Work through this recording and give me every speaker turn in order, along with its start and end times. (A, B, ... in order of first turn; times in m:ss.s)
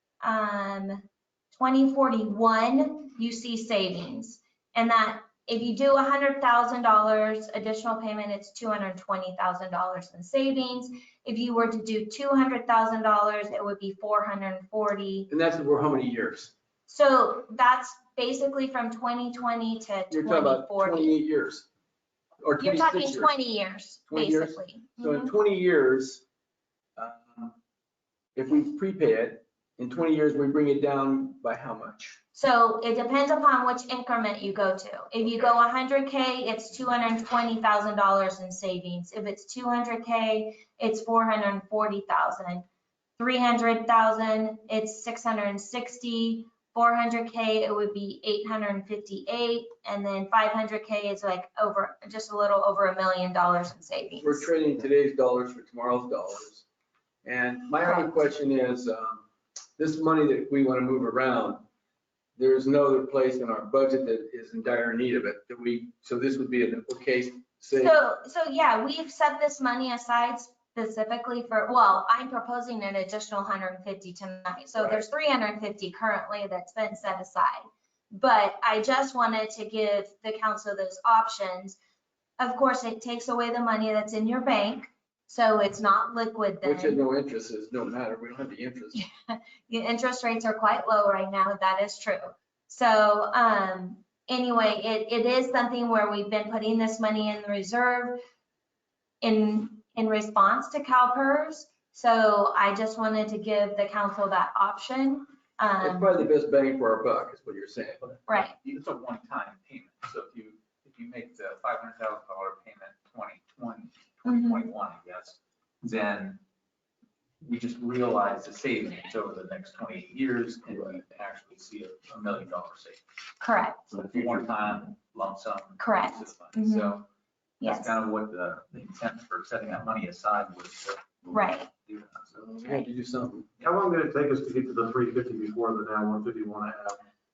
0:00.2-0:01.0 A
0:01.5-0:15.3 A
0:15.3-0:16.5 B
0:16.9-0:21.2 A
0:20.1-0:21.7 B
0:22.4-0:23.3 B
0:22.6-0:25.3 A
0:24.1-0:26.2 B
0:27.0-0:27.6 B
0:28.4-0:32.2 B
0:32.3-0:42.6 A
0:43.2-0:54.5 A
0:54.2-0:56.6 B
0:57.2-0:59.2 B
0:59.8-1:01.7 B
1:02.4-1:08.0 B
1:07.7-1:21.8 A
1:14.8-1:15.0 B
1:22.4-1:27.0 A
1:26.6-1:29.0 B
1:29.0-1:38.2 A
1:39.2-1:46.1 A
1:45.8-1:48.2 B
1:48.2-1:56.4 C
1:48.3-1:48.6 A
1:54.2-1:54.6 A
1:57.4-2:03.0 C
2:03.4-2:03.9 A
2:03.9-2:07.0 C
2:05.8-2:07.0 A
2:07.6-2:08.0 A
2:07.6-2:12.4 C
2:11.3-2:11.7 A
2:12.6-2:13.5 B
2:13.6-2:17.0 D